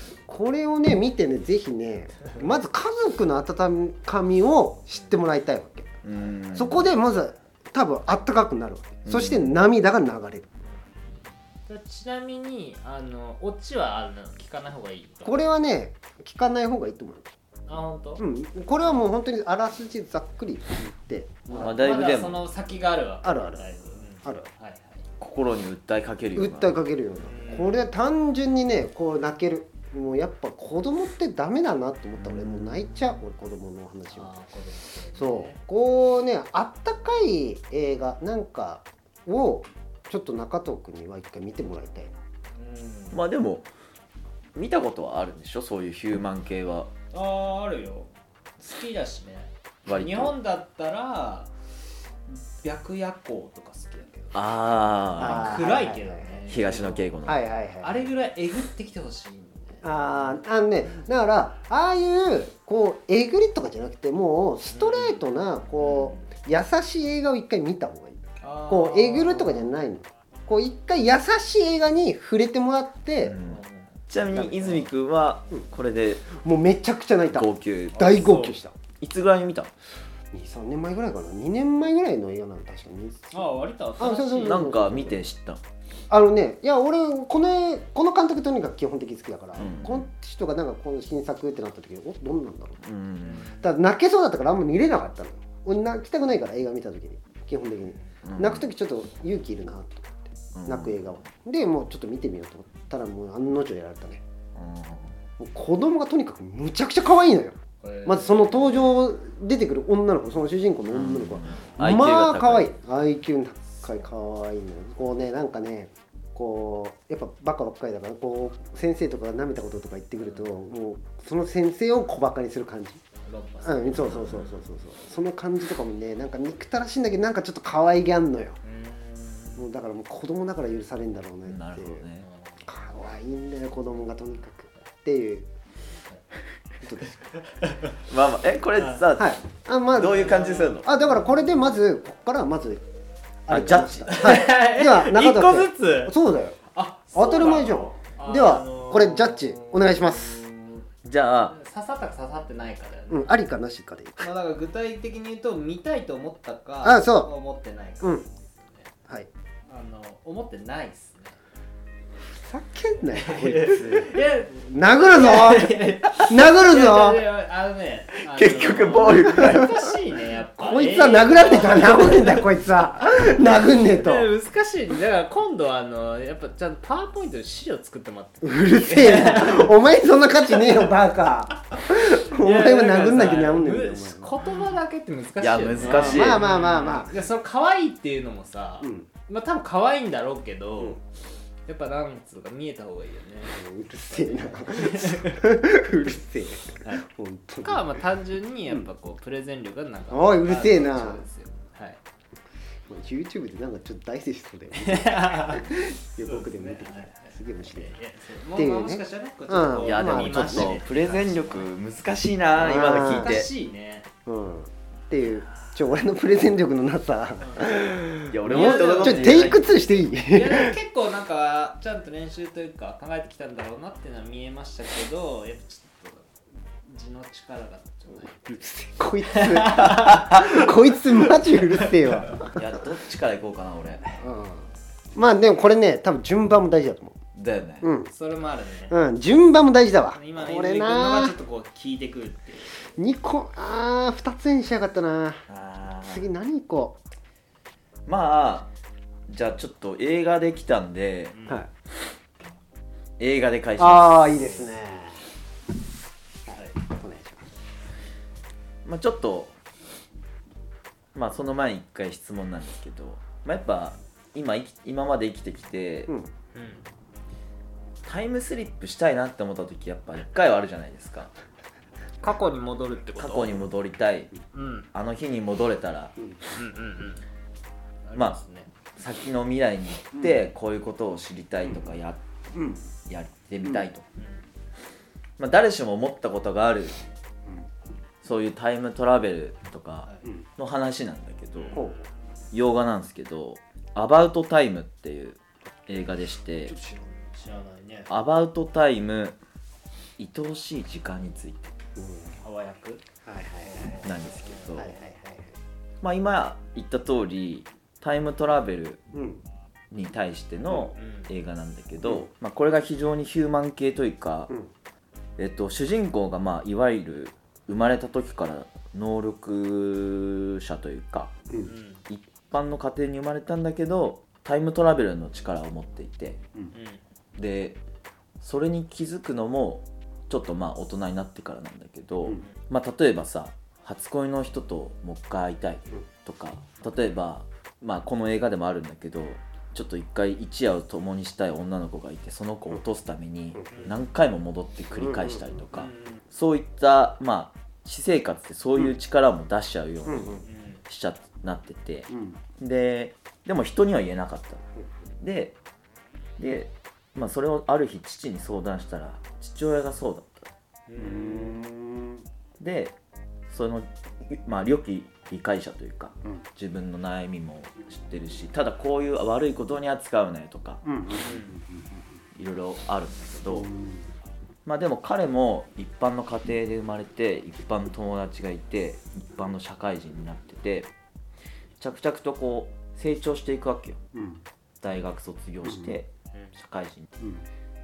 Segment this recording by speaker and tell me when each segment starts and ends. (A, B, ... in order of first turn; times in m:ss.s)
0:00.3-0:06.0 A
0:06.0-0:06.9 B
0:06.5-0:10.5 A
0:09.1-0:09.5 B
0:11.7-0:15.4 C
0:15.2-0:17.3 A
0:17.7-0:18.2 C
0:18.2-0:21.8 A
0:21.5-0:25.0 C
0:21.6-0:22.4 B
0:23.2-0:23.6 A
0:25.2-0:26.8 B
0:26.4-0:34.3 A
0:27.2-0:27.9 C
0:32.3-0:32.7 B
0:34.1-0:35.6 C
0:35.2-0:42.2 A
0:42.6-0:43.2 C
0:43.1-0:43.7 B
0:44.6-0:46.9 B
0:47.1-0:51.5 C
0:49.9-0:50.3 B
0:52.3-0:57.1 C
0:54.3-0:55.6 B
0:55.2-0:56.4 A
0:56.5-0:57.4 B
0:57.2-0:58.1 A
0:57.8-1:00.4 C
0:59.8-1:13.4 A
1:04.7-1:05.2 C
1:05.8-1:06.3 C
1:08.4-1:09.7 C
1:13.2-1:16.3 B
1:13.4-1:14.0 C
1:14.3-1:14.9 A
1:16.3-1:18.8 A
1:17.3-1:18.2 B
1:17.9-1:18.6 C
1:19.0-1:19.7 B
1:20.3-1:23.4 A
1:23.3-1:24.8 C
1:24.0-1:25.2 A
1:24.4-1:25.6 B
1:26.1-1:32.8 A
1:29.6-1:30.1 B
1:32.8-1:33.4 B
1:33.2-1:33.7 C
1:33.6-1:44.2 A
1:38.2-1:38.7 B
1:40.6-1:41.2 B
1:44.6-1:45.1 B
1:45.4-2:03.0 A
1:47.8-1:48.9 C
1:50.9-1:52.7 B
2:00.2-2:00.6 C
2:03.2-2:04.6 C
2:03.6-2:08.6 A
2:08.6-2:09.7 C
2:09.6-2:12.0 A
2:11.4-2:12.3 B
2:12.2-2:12.7 C
2:12.6-2:15.5 A
2:16.8-2:17.3 A
2:17.4-2:18.0 C
2:18.0-2:19.4 B
2:18.8-2:19.0 C
2:19.2-2:22.8 A
2:19.9-2:20.9 B
2:20.1-2:21.2 C
2:23.5-2:26.6 A
2:23.5-2:24.4 B
2:24.0-2:26.1 C
2:26.7-2:30.9 C
2:27.1-2:30.4 A
2:31.0-2:31.6 B
2:31.5-2:33.3 C
2:33.1-2:34.3 A
2:34.2-2:38.9 C
2:36.8-2:37.3 A
2:39.7-2:41.4 C
2:42.3-2:47.2 A
2:43.1-2:52.5 C
2:48.3-2:49.9 B
2:50.6-2:54.3 A
2:53.0-2:59.8 C
2:58.4-3:04.3 A
3:00.6-3:00.8 C
3:01.7-3:11.0 C
3:05.4-3:06.4 B
3:05.8-3:07.2 A
3:08.8-3:09.1 A
3:11.7-3:15.5 C
3:13.5-3:17.8 A
3:17.6-3:22.0 C
3:20.1-3:21.2 A
3:22.9-3:28.0 A
3:24.8-3:31.7 C
3:28.6-3:30.8 A
3:29.8-3:33.5 B
3:32.6-3:34.1 C
3:32.6-3:33.4 A
3:34.3-3:40.8 A
3:37.4-3:39.5 C
3:38.3-3:39.8 B
3:40.3-3:46.3 C
3:46.8-3:48.6 C
3:48.4-3:52.6 A
3:49.3-3:50.5 C
3:51.8-3:52.4 C
3:52.5-3:54.2 B
3:54.2-3:57.2 A
3:57.4-3:57.9 B
3:57.8-3:58.1 A
3:58.1-3:59.0 C
3:58.9-4:01.4 A
4:00.1-4:02.8 C
4:03.0-4:05.4 A
4:05.5-4:06.3 B
4:06.1-4:07.0 A
4:08.1-4:08.7 B
4:09.3-4:11.4 B
4:11.3-4:11.6 C
4:13.2-4:14.4 B
4:13.8-4:15.2 A
4:16.5-4:16.8 C
4:16.5-4:17.4 A
4:18.8-4:19.6 B
4:21.2-4:26.1 B
4:26.5-4:26.9 C
4:28.0-4:31.3 B
4:32.2-4:33.6 C
4:33.2-4:34.3 B
4:34.5-4:34.9 C
4:34.9-4:36.2 B
4:36.6-4:37.2 C
4:38.0-4:38.7 C
4:39.0-4:44.0 B
4:42.6-4:42.8 A
4:44.2-4:44.4 C
4:45.4-4:47.0 B
4:48.2-4:51.8 B
4:51.6-4:51.9 C
4:51.7-4:52.1 A
4:52.5-4:56.8 B
4:56.7-4:58.1 C
4:58.1-4:59.4 B
5:00.2-5:01.7 B
5:02.0-5:02.4 A
5:02.4-5:03.0 C
5:03.2-5:04.0 A
5:03.6-5:04.9 C
5:04.0-5:05.0 B
5:04.8-5:05.6 A
5:06.0-5:09.0 B
5:09.1-5:09.4 A
5:09.9-5:14.5 B
5:10.7-5:11.3 C
5:12.0-5:12.3 A
5:15.4-5:21.4 B
5:21.6-5:22.0 C
5:22.1-5:26.4 B
5:26.7-5:27.0 C
5:27.4-5:27.8 B
5:28.4-5:54.6 B
5:43.7-5:44.0 C
5:45.0-5:45.6 A
5:45.7-5:46.2 C
5:50.1-5:50.4 A
5:50.4-5:50.8 C
5:52.1-5:52.4 A
5:55.2-5:55.6 B
5:56.4-6:00.5 B
6:00.9-6:01.7 C
6:01.0-6:02.2 A
6:02.6-6:02.9 B
6:03.5-6:10.8 B
6:10.8-6:11.9 A
6:11.2-6:11.6 C
6:12.4-6:13.7 B
6:13.5-6:14.1 A
6:14.7-6:20.9 B
6:21.8-6:24.0 B
6:24.1-6:24.4 A
6:24.8-6:27.1 B
6:25.7-6:25.9 A
6:27.2-6:27.4 A